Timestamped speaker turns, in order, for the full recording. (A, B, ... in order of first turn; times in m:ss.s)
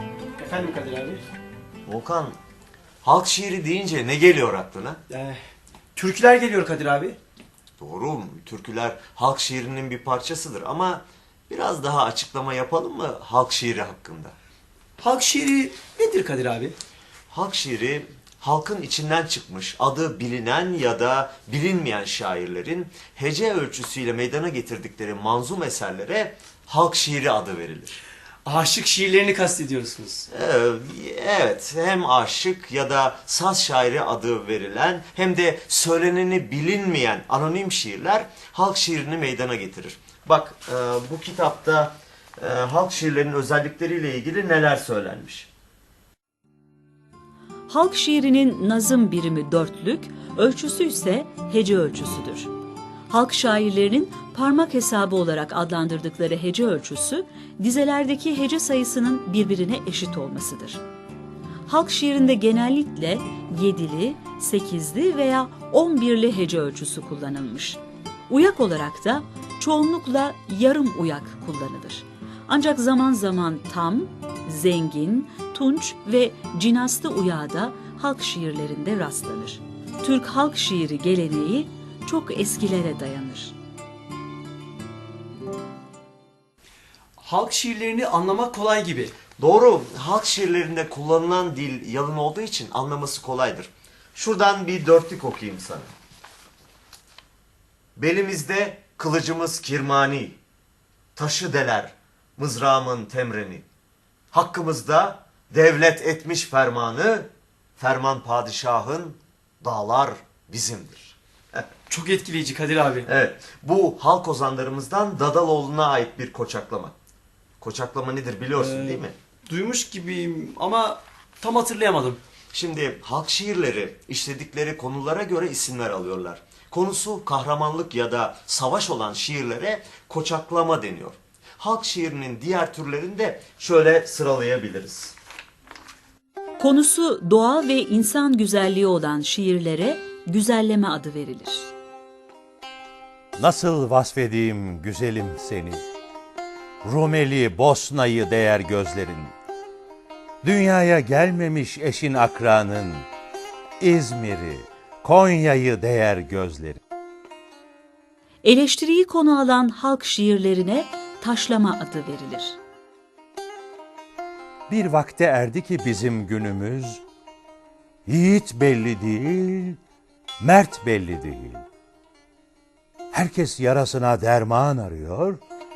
0:00.4-0:01.2 A
0:01.8-0:02.4 B
0:03.0-0:05.0 B
0:05.1-0:05.4 A
0:06.0-0:07.2 A
0:07.8-0:14.3 B
0:15.0-0:16.8 A
0:17.3-0:28.0 B
0:28.4-0:30.2 A
0:30.3-0:45.5 B
0:47.7-0:52.5 C
0:53.1-1:00.8 C
1:01.7-1:23.5 C
1:27.2-1:29.1 A
1:29.4-1:35.9 B
1:38.0-1:40.4 B
1:41.2-1:43.6 B
1:44.3-1:51.6 B
1:51.9-1:53.1 A
1:53.0-1:56.9 B
1:57.6-1:59.2 B
1:58.5-2:02.2 A
2:02.5-2:15.2 B
2:16.6-2:21.7 C
2:23.4-2:25.8 D
2:26.8-2:29.3 D
2:30.4-2:33.1 D
2:33.8-2:36.8 D
2:38.4-2:42.6 C
2:44.7-2:47.0 D
2:48.1-2:49.8 D
2:50.4-2:51.6 D
2:53.1-2:55.4 D